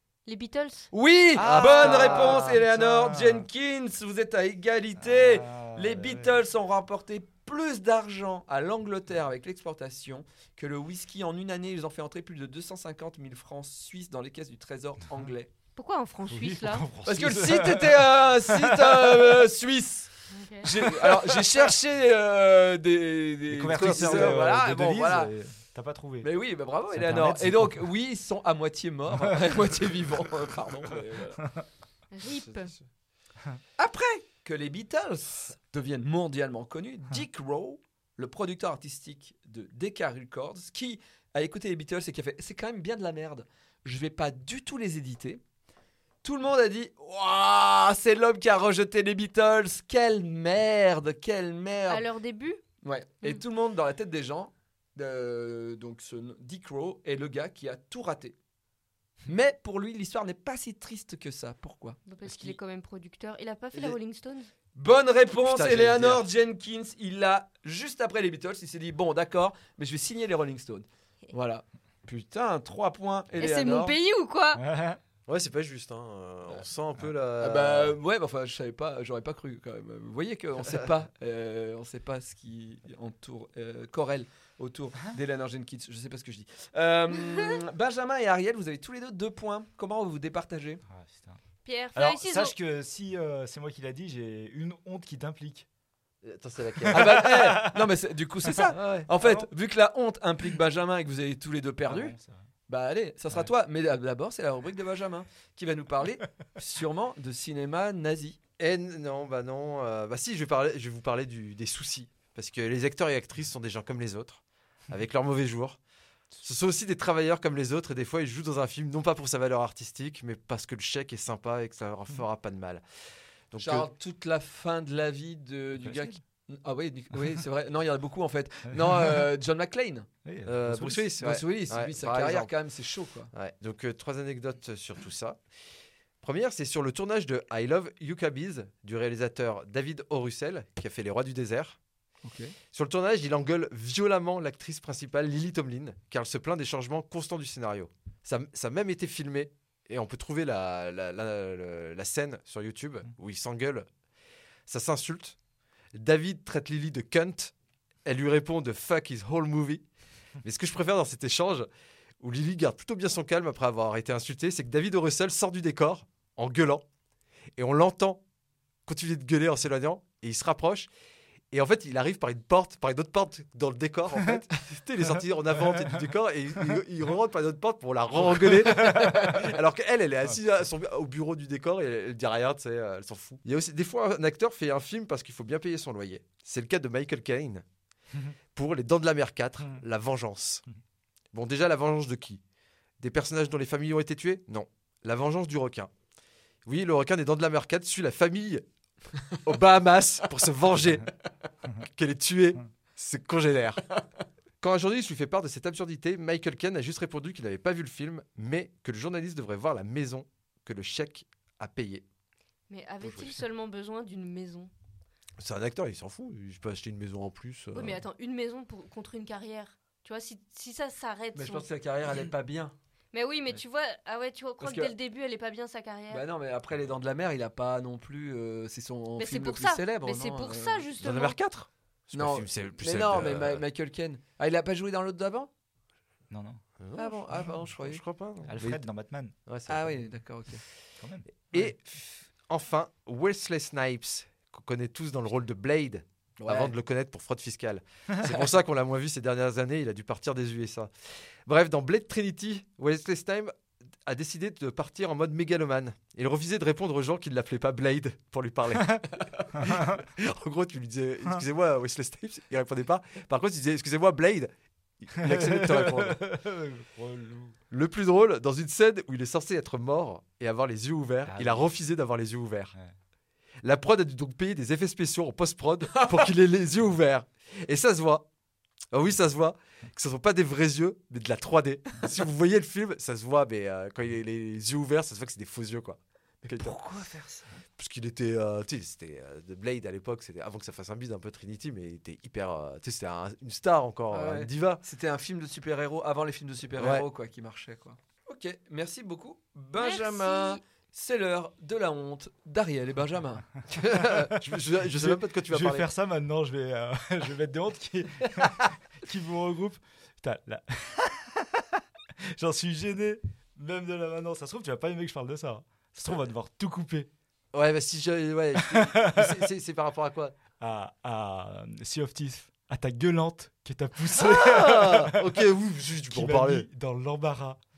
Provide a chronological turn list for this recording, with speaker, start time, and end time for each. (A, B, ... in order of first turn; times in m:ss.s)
0:00.3-0:00.9 A
0:00.9-0:15.5 B
0:01.4-0:03.5 C
0:01.4-0:02.6 D
0:05.0-0:06.4 C
0:15.8-0:16.9 A
0:16.3-0:19.5 C
0:17.0-0:25.3 B
0:20.3-0:20.7 A
0:20.9-0:21.6 C
0:23.5-0:26.3 C
0:23.7-0:24.5 D
0:26.2-0:31.4 B
0:26.9-0:27.9 C
0:32.1-0:32.7 A
0:32.2-0:32.8 D
0:33.8-0:45.4 B
0:46.2-0:52.0 B
0:51.9-0:52.6 A
0:52.8-0:58.4 B
0:59.3-1:02.6 B
1:02.1-1:04.5 A
1:04.8-1:14.0 B
1:05.4-1:06.2 D
1:13.4-1:14.6 A
1:14.6-1:15.0 C
1:15.3-1:18.0 D
1:17.4-1:30.8 B
1:30.9-1:31.4 C
1:31.6-1:32.5 A
1:32.0-1:35.7 C
1:36.2-1:37.6 D
1:36.8-1:37.9 C
1:36.9-1:42.2 B
1:38.7-1:39.1 D
1:39.1-1:39.5 C
1:41.9-1:42.4 C
1:42.7-1:48.4 B
1:48.6-1:55.8 D
1:56.4-2:02.8 D
2:03.5-2:03.9 D
2:03.6-2:10.1 B
2:05.8-2:06.2 C
2:08.9-2:09.2 C
2:10.2-2:11.0 C
2:10.5-2:12.5 D
2:11.2-2:13.3 B
2:13.3-2:15.4 D
2:16.2-2:21.8 D
2:22.2-2:22.6 B
2:22.7-2:33.9 D
2:34.7-2:35.4 D
2:36.0-2:37.5 D
2:38.0-2:39.8 D
2:40.4-2:41.7 D
2:42.2-2:46.8 D
2:47.6-2:48.2 D
2:48.9-2:50.9 D
2:51.5-3:07.6 D
2:55.6-2:56.0 C
2:58.7-2:59.2 C
3:08.5-3:10.6 D
3:11.3-3:12.4 D
3:13.0-3:15.9 D
3:16.7-3:18.6 D
3:19.3-3:21.1 D
3:21.8-3:23.8 D
3:24.6-3:32.0 D
3:32.7-3:34.7 A
3:35.4-3:38.0 D
3:37.7-3:41.7 A
3:41.4-3:42.7 B
3:43.1-3:46.3 A
3:44.6-3:44.9 B
3:46.1-3:50.9 B
3:49.2-3:51.4 A
3:51.0-3:53.6 D
3:52.1-3:55.5 B
3:56.3-3:56.6 C
3:56.8-3:58.8 D
3:57.0-3:58.0 B
3:58.5-3:59.3 C
3:59.5-3:59.9 D
3:59.7-4:00.6 B
4:01.0-4:01.3 C
4:01.5-4:10.9 D
4:06.4-4:06.7 B
4:11.5-4:13.5 D
4:14.0-4:26.2 D
4:25.2-4:27.6 C
4:27.7-4:32.7 D
4:31.2-4:31.8 C
4:33.6-4:38.3 D
4:38.9-4:46.8 D
4:46.4-4:47.4 B
4:47.8-4:54.8 D
4:54.1-5:03.4 B
4:56.8-4:57.0 D
4:59.8-5:00.6 A
5:03.7-5:05.9 D
5:04.8-5:17.1 C
5:17.5-5:20.4 D
5:18.6-5:19.5 C
5:20.6-5:25.4 C
5:24.1-5:26.7 D
5:26.1-5:27.6 C